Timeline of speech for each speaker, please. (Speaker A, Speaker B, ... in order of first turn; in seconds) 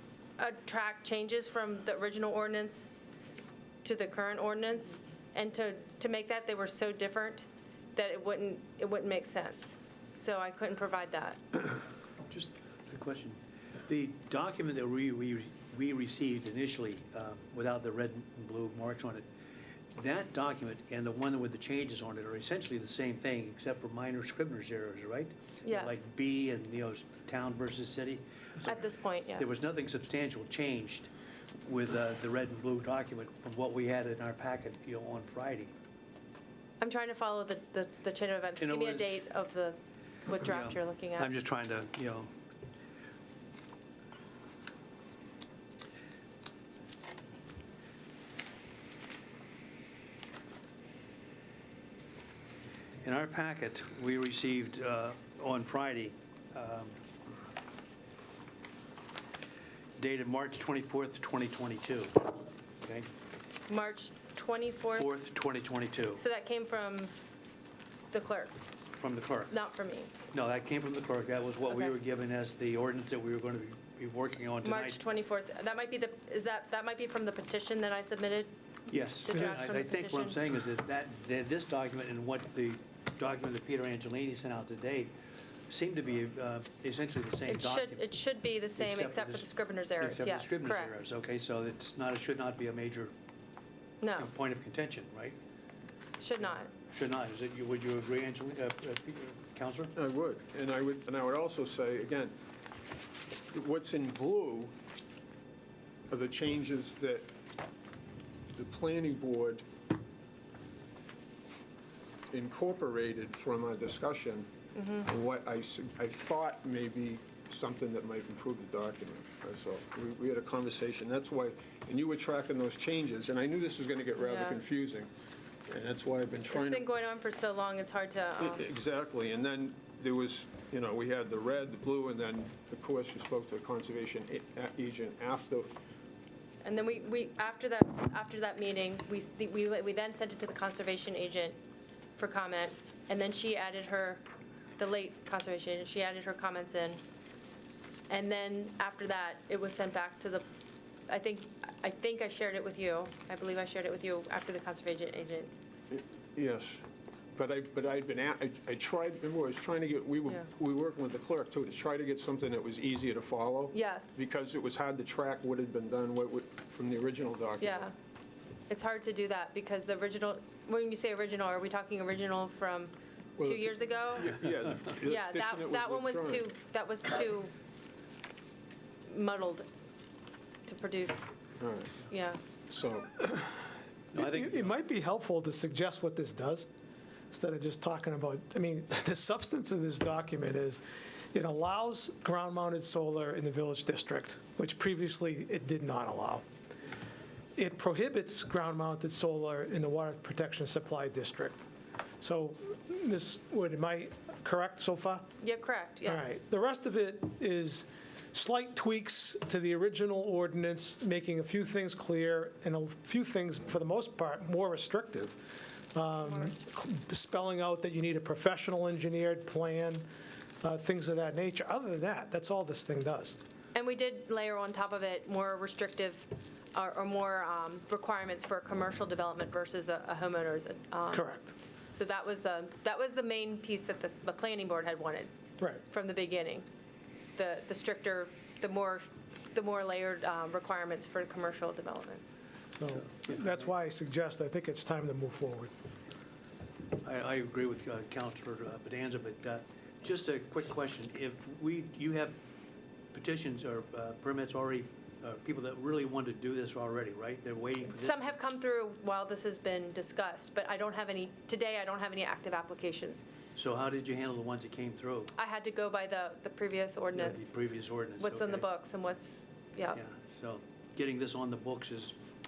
Speaker A: 0.4-3.0, 3.8-11.6, 25.6-26.0, 28.6-29.5, 36.8-41.3, 63.7-65.1, 66.2-67.1, 68.1-68.5, 69.5-70.1, 74.6-78.5, 79.2-80.4, 87.5-91.0, 94.0-94.3, 96.2-96.7, 114.7-115.0, 124.2-124.6, 126.5-128.6, 136.6-141.6, 142.2-144.2, 144.8-147.0, 148.1-150.4, 151.1-155.5, 163.7-164.2, 167.6-167.9, 168.7-174.4, 175.0-177.5, 179.1-179.7, 180.7-181.3, 182.1-182.4, 205.4-206.3, 216.2-216.7, 223.7-231.3, 231.9-235.3, 235.8-236.7, 237.3-242.3, 257.9-263.2, 265.4-267.5, 268.2-270.0
Speaker B: 12.3-19.2, 19.9-28.7, 29.4-31.1, 31.6-35.7, 38.6-39.1, 40.4-42.3, 53.0-57.0, 60.0-63.1, 65.0-66.2, 69.0-69.5, 70.3-75.0, 78.9-85.1, 85.7-88.0, 88.8-89.5, 90.0-93.1, 94.2-95.4, 96.9-99.9, 184.1-184.7, 243.3-243.6, 247.0-252.4, 253.1-258.4, 263.6-265.3, 267.1-268.6, 269.9-272.1
Speaker C: 100.0-102.3, 103.5-104.7, 106.1-107.2, 108.5-109.6, 112.3-114.5, 115.0-125.1, 125.7-126.8, 128.4-135.7, 155.9-156.8, 157.3-167.9, 173.4-176.4, 181.6-182.0, 182.7-183.6
Speaker D: 184.1-186.7, 187.3-190.8, 191.3-196.4, 197.6-201.6, 202.2-205.3, 206.0-220.0, 220.6-223.4, 231.1-231.5, 242.8-245.7